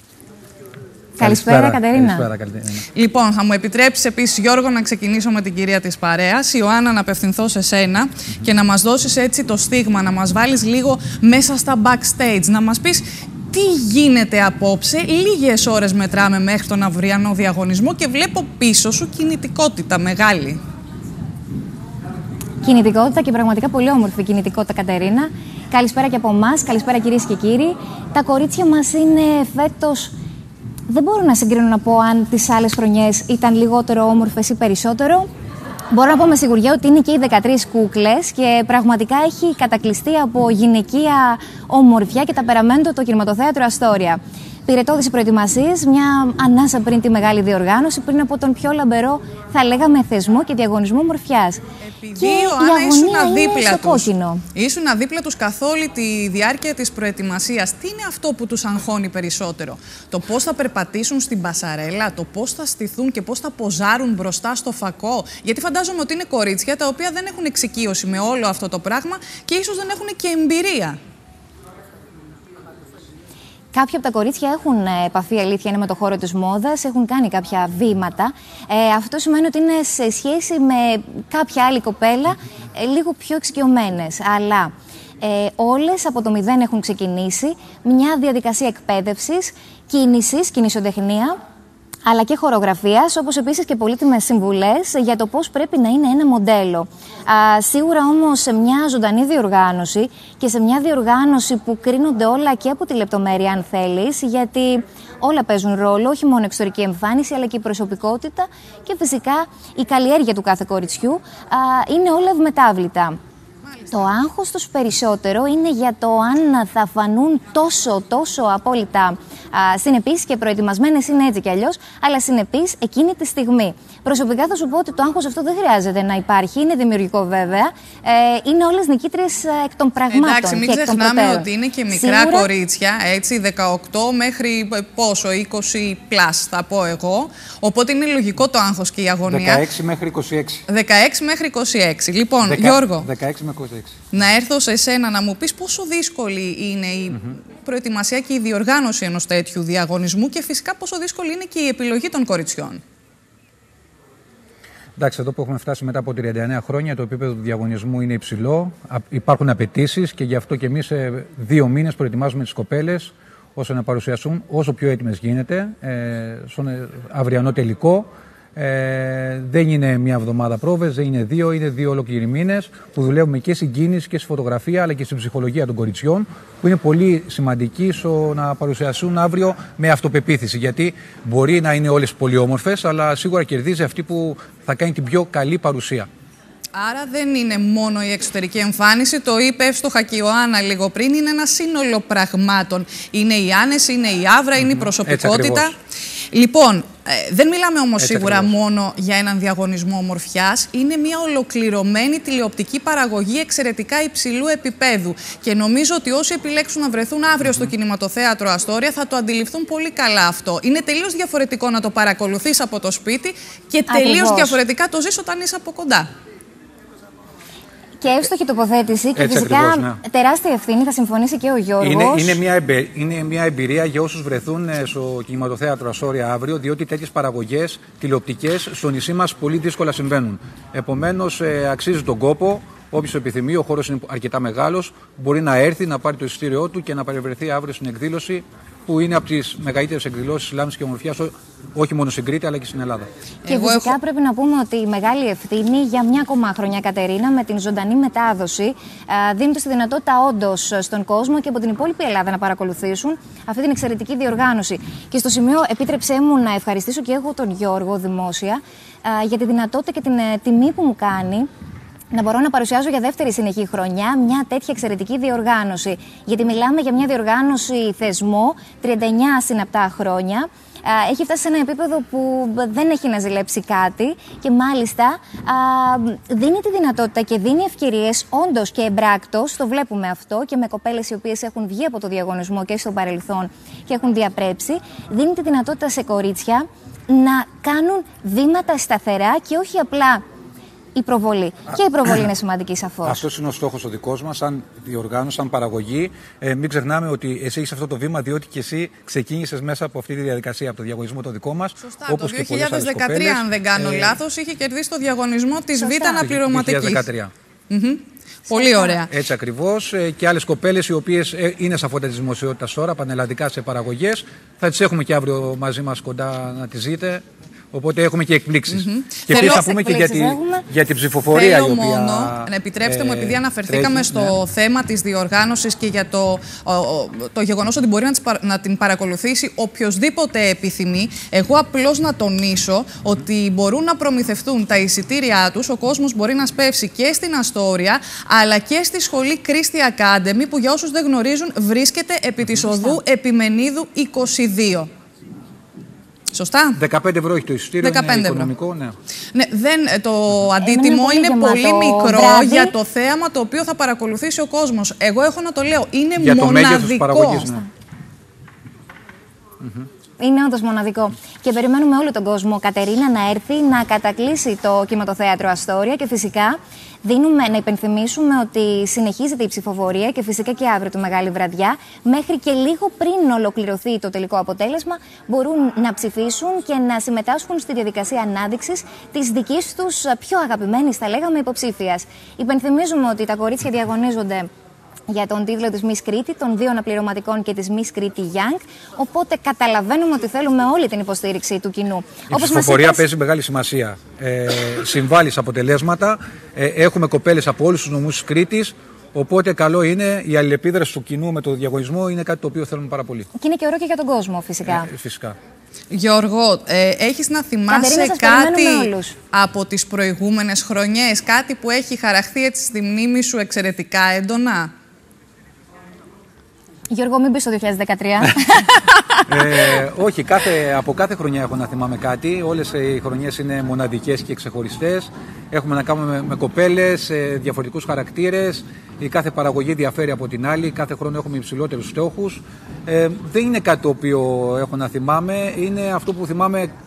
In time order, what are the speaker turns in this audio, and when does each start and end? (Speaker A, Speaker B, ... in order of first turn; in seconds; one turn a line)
Speaker A: 1.2-2.3
Speaker B: 1.2-2.9
Speaker C: 2.9-20.6
Speaker A: 22.6-30.1
Speaker A: 30.9-35.3
Speaker A: 35.9-51.6
Speaker C: 51.8-71.0
Speaker A: 52.1-54.4
Speaker A: 73.7-91.4
Speaker A: 92.0-113.2
Speaker C: 113.8-114.1
Speaker A: 113.9-132.5
Speaker C: 130.1-139.6
Speaker B: 139.3-140.6
Speaker C: 140.7-143.1
Speaker B: 142.4-144.0
Speaker C: 144.1-152.8
Speaker B: 155.0-186.1
Speaker C: 186.7-195.7
Speaker B: 194.6-195.7
Speaker C: 196.3-216.1
Speaker B: 198.0-198.5
Speaker A: 213.9-214.6
Speaker A: 218.0-222.4
Speaker B: 219.2-220.0
Speaker B: 221.8-243.1
Speaker C: 243.4-243.9
Speaker A: 243.4-261.5
Speaker A: 262.1-290.2
Speaker A: 290.9-293.2
Speaker B: 293.0-304.2
Speaker C: 301.8-307.0
Speaker A: 305.7-306.2
Speaker B: 306.2-307.3
Speaker C: 307.7-309.1
Speaker A: 308.5-309.0
Speaker B: 309.1-324.4
Speaker C: 318.7-319.6
Speaker A: 319.3-320.7
Speaker C: 321.3-344.9
Speaker A: 342.7-343.0
Speaker C: 346.3-346.8
Speaker B: 346.8-348.9
Speaker C: 347.8-348.5
Speaker C: 349.3-357.5
Speaker A: 350.6-352.7
Speaker B: 356.2-357.6
Speaker B: 359.6-359.9
Speaker A: 360.2-384.5
Speaker A: 385.1-393.0
Speaker B: 392.3-403.3
Speaker A: 403.4-404.9
Speaker B: 404.6-405.4
Speaker C: 405.9-414.7
Speaker A: 407.7-409.1
Speaker A: 416.9-419.7
Speaker B: 419.3-436.7